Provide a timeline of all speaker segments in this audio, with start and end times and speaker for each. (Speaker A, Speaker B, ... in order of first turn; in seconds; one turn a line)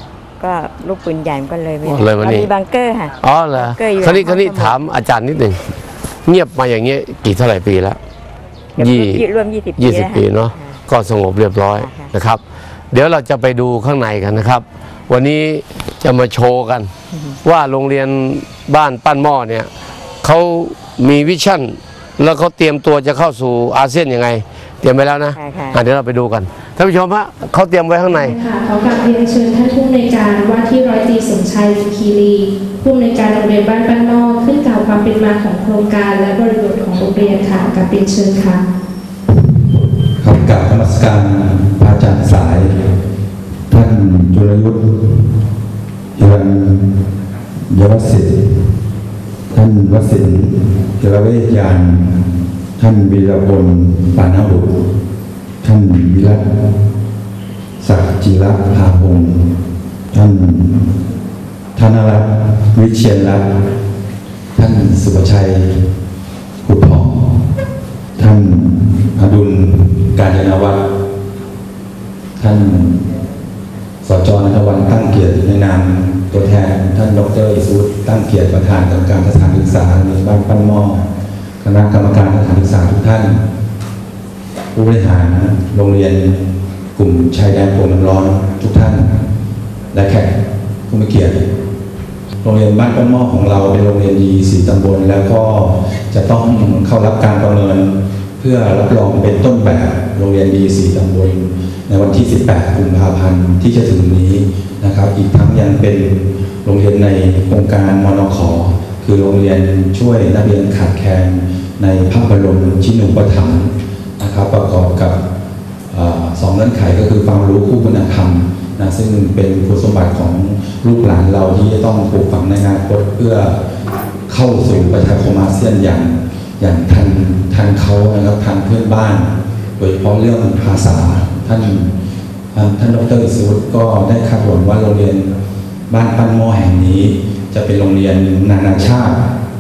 Speaker A: 0.4-4.8
Speaker B: 1.9-2.5
Speaker B: 3.2-5.6
Speaker B: 6.3-8.0
Speaker A: 8.8-10.8
Speaker B: 8.8-9.2
Speaker B: 9.8-12.4
Speaker A: 11.8-12.1
Speaker B: 12.9-16.9
Speaker A: 17.1-17.4
Speaker B: 17.4-19.7
Speaker B: 20.2-28.4
Speaker A: 25.3-25.8
Speaker C: 28.1-38.6
Speaker D: 39.3-42.7
Speaker D: 43.7-45.3
Speaker D: 46.2-47.0
Speaker D: 47.7-48.7
Speaker D: 49.5-52.2
Speaker D: 52.8-54.7
Speaker D: 55.6-56.4
Speaker D: 57.8-59.5
Speaker D: 60.1-60.9
Speaker D: 61.8-63.5
Speaker D: 64.5-65.9
Speaker D: 66.6-67.4
Speaker D: 68.2-70.8
Speaker D: 72.4-73.1
Speaker D: 74.0-81.1
Speaker D: 81.6-83.4
Speaker D: 84.7-86.4
Speaker D: 87.0-89.2
Speaker D: 89.9-90.4
Speaker D: 90.9-91.5
Speaker D: 92.4-115.2
Speaker D: 115.9-123.6
Speaker D: 124.3-131.9
Speaker D: 132.5-135.3
Speaker D: 135.9-139.2